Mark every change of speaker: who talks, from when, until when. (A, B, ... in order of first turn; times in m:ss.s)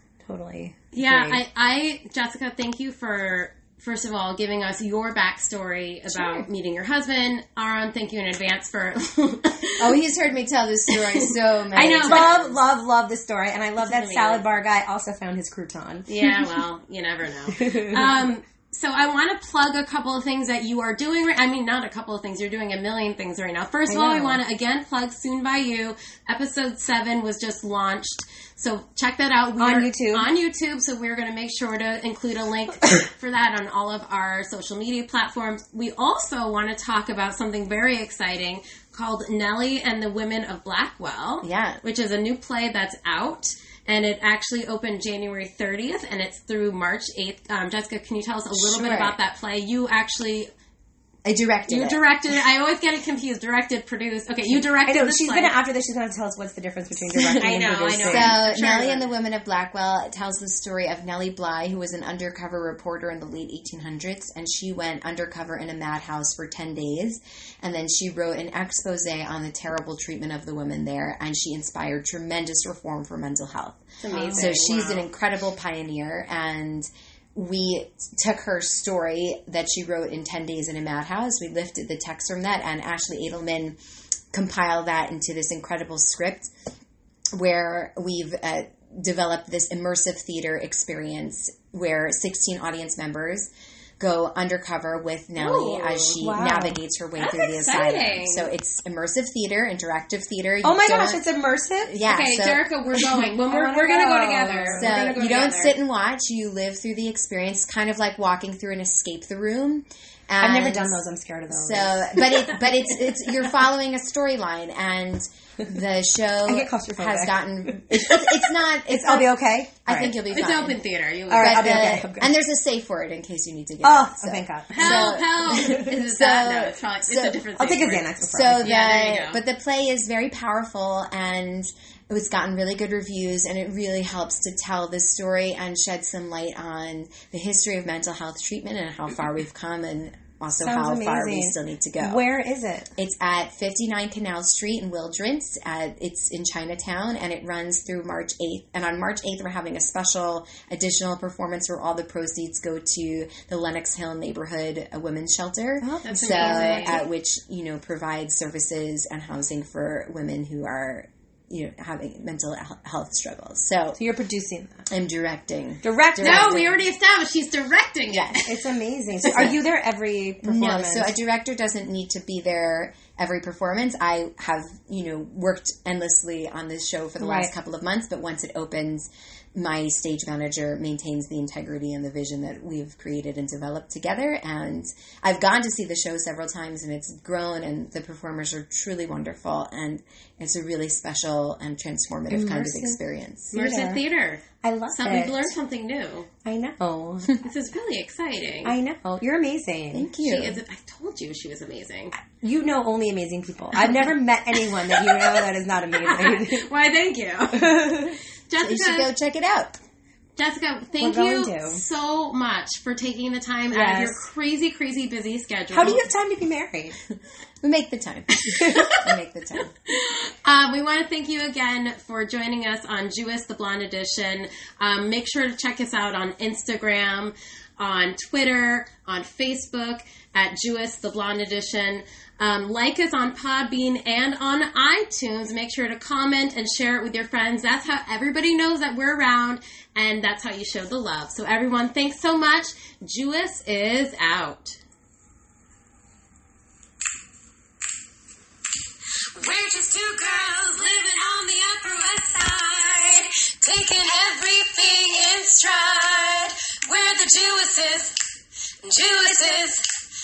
0:00.2-0:01.4 A
0:00.9-0:10.0 B
0:09.8-0:12.6 C
0:10.9-0:12.3 B
0:11.8-0:16.5 A
0:13.8-0:14.4 B
0:16.1-0:50.5 B
0:17.5-0:18.2 A
0:23.9-0:24.4 A
0:29.6-0:30.3 A
0:41.4-0:41.8 C
0:48.5-0:49.2 C
0:51.2-0:52.0 C
0:51.7-0:55.6 B
0:54.9-0:58.4 A
0:57.4-0:59.1 B
0:58.1-1:23.8 C
1:14.0-1:15.1 B
1:14.1-1:14.5 A
1:24.3-1:26.5 C
1:27.3-1:33.5 C
1:34.0-1:41.2 C
1:35.4-1:36.2 B
1:36.2-1:36.8 A
1:37.2-1:38.5 B
1:40.6-1:41.9 A
1:41.9-1:42.6 C
1:42.1-1:45.8 B
1:42.9-1:45.0 A
1:44.8-2:00.8 C
1:50.4-1:52.5 A
1:56.4-2:00.1 A
1:59.9-2:02.0 B
2:01.3-2:02.3 A
2:01.4-2:07.4 C
2:03.8-2:05.9 A
2:04.7-2:09.4 B
2:07.6-2:08.7 A
2:08.2-2:22.2 C
2:20.6-2:22.9 A
2:23.0-2:44.0 C
2:35.8-2:37.1 A
2:36.1-2:37.0 B
2:44.0-2:44.9 A
2:44.9-2:46.8 C
2:45.8-2:46.7 A
2:46.2-2:48.5 B
2:48.1-2:48.5 C
2:48.5-2:51.1 A
2:50.4-3:13.5 C
2:57.2-2:57.5 A
3:12.3-3:13.0 A
3:13.5-3:14.0 A
3:13.5-3:16.3 B
3:14.6-3:15.5 A
3:16.4-3:17.4 A
3:17.4-3:18.7 B
3:18.6-3:20.1 A
3:19.9-3:20.6 C
3:20.2-3:22.1 B
3:22.4-3:26.7 A
3:25.0-3:29.1 B
3:27.6-3:28.2 A
3:28.6-3:29.8 C
3:30.4-3:36.0 B
3:31.0-3:31.8 A
3:33.7-3:34.2 A
3:35.7-3:37.0 A
3:37.6-3:39.7 C
3:38.4-3:39.0 B
3:38.5-3:38.9 A
3:39.9-4:04.8 B
4:09.4-4:18.2 D
4:18.8-4:19.9 D